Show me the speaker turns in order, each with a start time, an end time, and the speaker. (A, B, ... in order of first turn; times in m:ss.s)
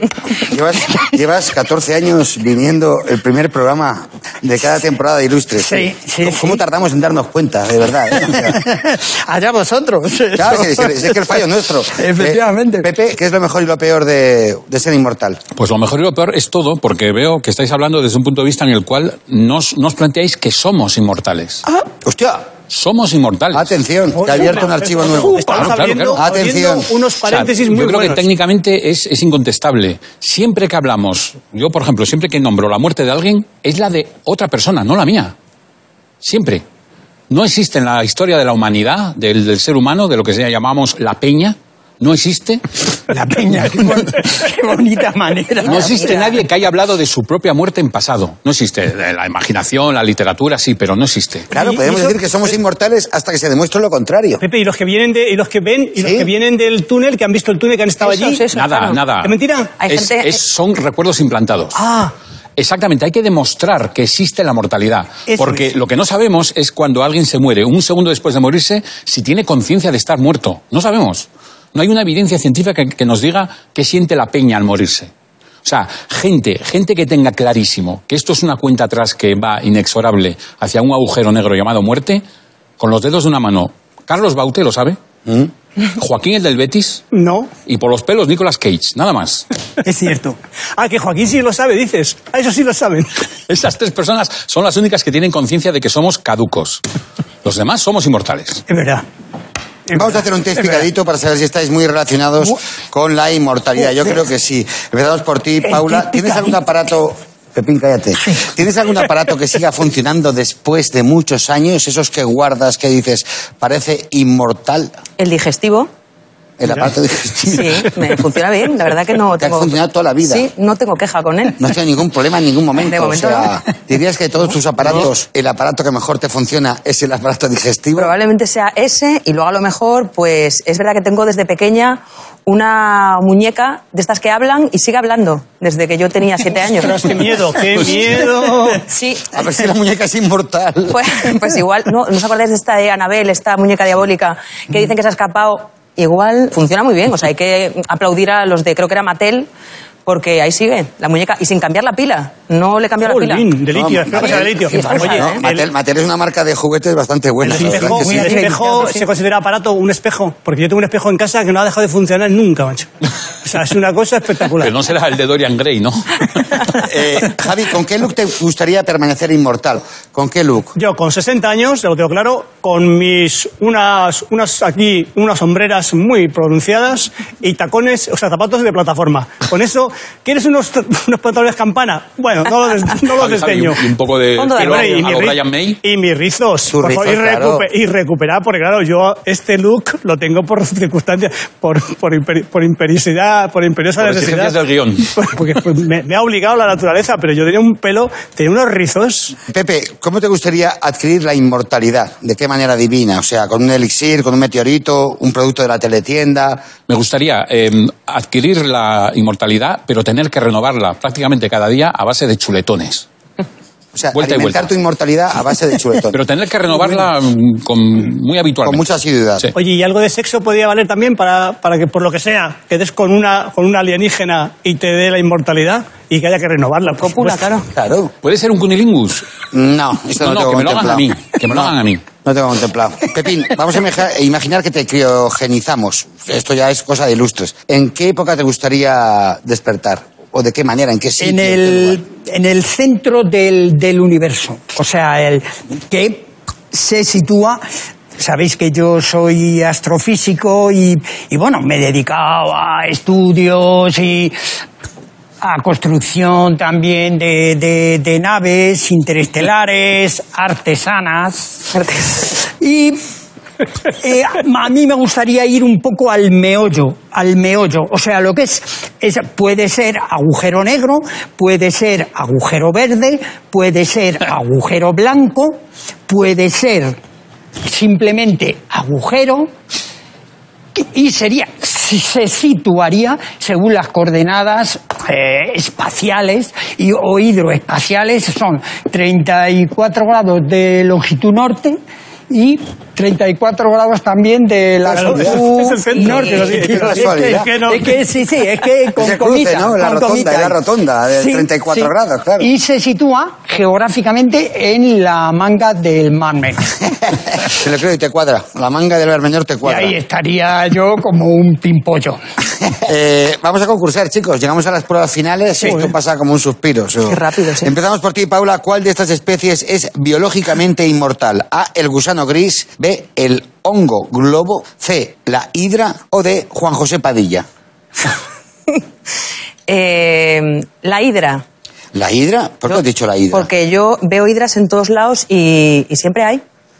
0:00.4-0:08.6 A
0:05.6-0:06.6 B
0:08.2-0:11.4 B
0:10.3-0:15.4 A
0:11.9-0:12.9 B
0:15.6-0:21.6 C
0:22.0-0:22.4 A
0:22.7-0:23.7 C
0:23.5-0:26.9 A
0:24.1-0:28.2 D
0:25.4-0:26.2 C
0:27.2-0:35.3 C
0:36.2-0:36.6 C
0:37.3-0:42.6 C
0:43.1-0:46.4 B
0:45.6-0:51.5 C
0:51.5-0:52.2 D
0:51.5-0:54.4 A
0:54.4-0:58.5 D
0:56.0-0:56.3 A
0:58.0-0:59.0 E
0:58.5-0:59.3 C
0:59.2-0:59.7 D
0:59.8-1:00.4 E
0:59.9-1:01.8 C
1:01.7-1:02.1 D
1:02.6-1:15.1 C
1:05.3-1:05.6 B
1:15.6-1:22.2 C
1:22.8-1:25.0 C
1:25.9-1:27.0 C
1:27.1-1:27.5 D
1:27.7-1:29.4 C
1:29.8-1:30.4 B
1:30.8-1:33.1 D
1:33.5-1:36.8 C
1:37.4-1:38.6 C
1:38.7-1:39.0 B
1:39.9-1:54.9 A
1:45.6-1:46.6 B
1:55.2-1:55.9 E
1:56.6-1:57.9 A
1:57.4-2:01.6 E
1:59.4-2:00.5 A
2:01.6-2:08.1 A
2:02.8-2:03.5 E
2:08.0-2:17.0 E
2:16.6-2:18.8 D
2:18.9-2:19.2 E
2:19.3-2:21.0 A
2:20.9-2:29.5 E
2:30.0-2:33.5 E
2:33.0-2:35.7 D
2:33.7-2:38.4 A
2:34.1-2:35.4 E
2:37.4-2:42.9 D
2:37.5-2:39.0 B
2:43.4-2:44.7 D
2:44.6-2:46.8 C
2:46.8-2:50.7 A
2:50.8-3:03.8 D
3:03.1-3:05.8 C
3:04.4-3:05.1 E
3:04.5-3:14.6 D
3:06.7-3:07.7 A
3:14.0-3:15.1 C
3:15.1-3:19.4 D
3:19.5-3:26.7 A
3:26.9-3:33.0 C
3:33.9-3:36.2 A
3:34.1-3:34.7 C
3:36.1-3:38.9 C
3:38.6-3:39.5 A
3:39.5-3:47.5 D
3:47.0-3:47.7 E
3:47.7-3:48.1 A
3:48.2-3:49.3 C
3:49.5-3:51.7 A
3:50.2-3:52.0 C
3:52.2-4:02.0 A
4:01.2-4:07.6 B
4:08.2-4:14.4 B
4:15.4-4:21.7 B
4:21.7-4:22.2 E
4:22.2-4:23.0 B
4:23.9-4:37.0 B
4:37.6-4:39.5 B
4:40.7-4:51.8 B
4:52.3-5:00.6 B
4:54.8-4:55.4 A
4:54.9-4:58.0 D
4:56.0-4:56.3 E
4:56.5-4:57.5 A
4:59.0-5:02.5 A
5:01.1-5:06.8 B
5:07.4-5:09.9 A
5:09.6-5:12.2 B
5:12.8-5:27.4 A
5:17.1-5:17.7 E
5:29.7-5:31.4 E
5:31.9-5:33.5 A
5:33.3-5:36.4 E